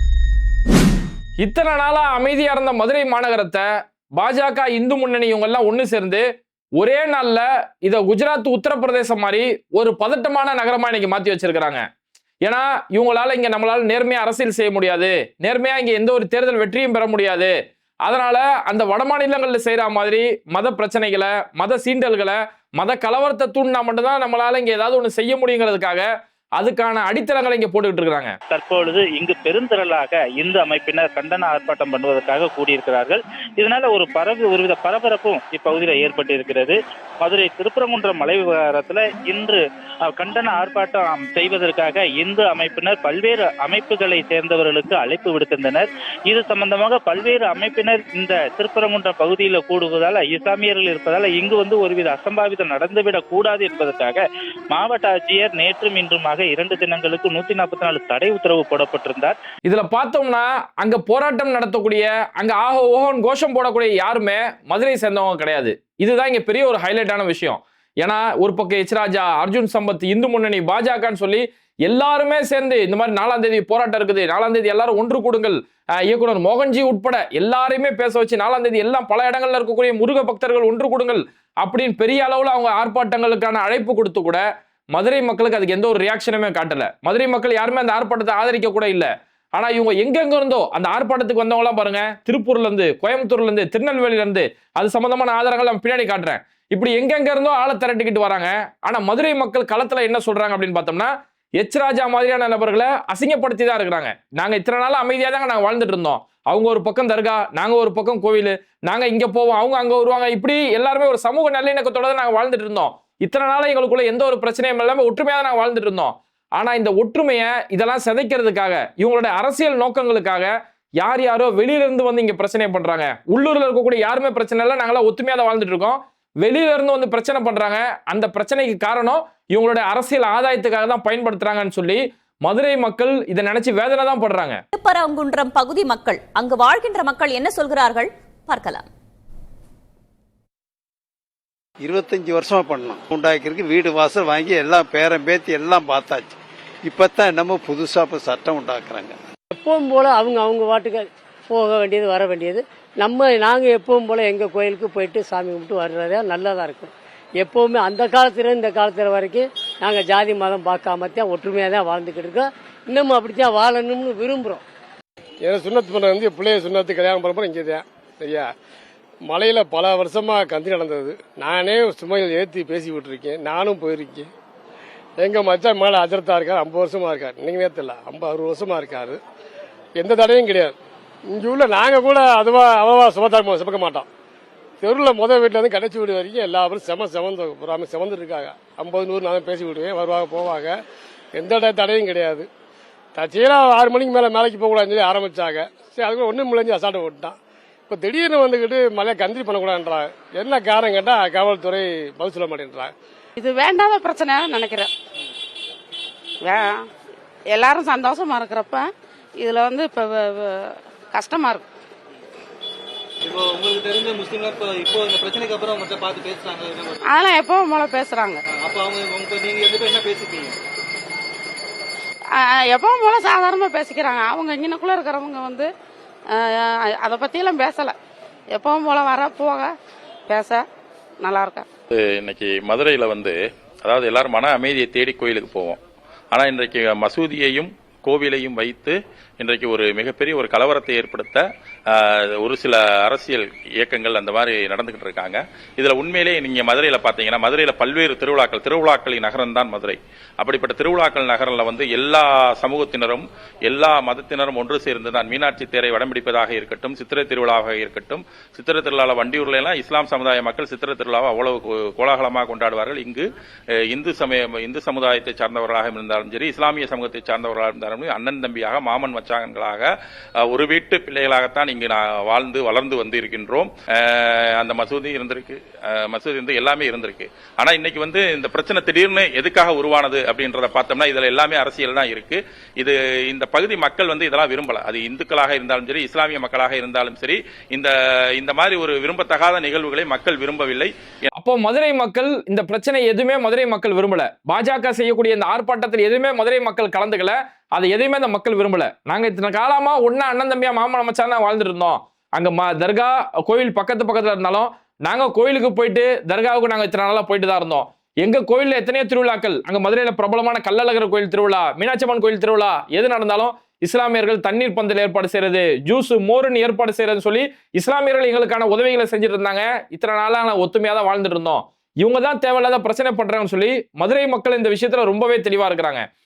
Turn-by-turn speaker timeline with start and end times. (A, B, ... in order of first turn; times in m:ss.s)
0:01.4-0:06.2 A
0:06.8-0:11.8 A
0:12.4-0:28.4 A
0:28.5-0:59.4 B
0:59.6-2:14.6 A
2:14.7-2:18.9 C
2:21.8-2:29.2 D
2:29.6-2:44.6 E
2:45.4-2:48.5 F
2:49.3-2:54.3 F
2:55.2-2:59.2 F
3:00.0-3:00.8 F
3:01.3-3:04.1 F
3:04.8-3:10.7 F
3:11.4-3:12.5 F
3:13.2-3:17.4 F
3:17.9-3:22.9 F
3:23.4-3:24.9 G
3:26.4-3:26.8 G
3:27.5-3:28.9 G
3:29.4-3:31.7 G
3:33.2-3:37.0 H
3:37.1-3:38.4 G
3:38.5-3:40.6 H
3:42.3-3:45.7 G
3:46.3-3:47.9 G
3:48.5-3:49.7 G
3:50.3-3:50.7 G
3:51.2-3:51.7 G
3:52.0-3:55.8 I
3:56.3-4:23.2 I
4:23.9-4:29.9 I
4:30.4-4:50.9 I
4:51.3-5:26.0 A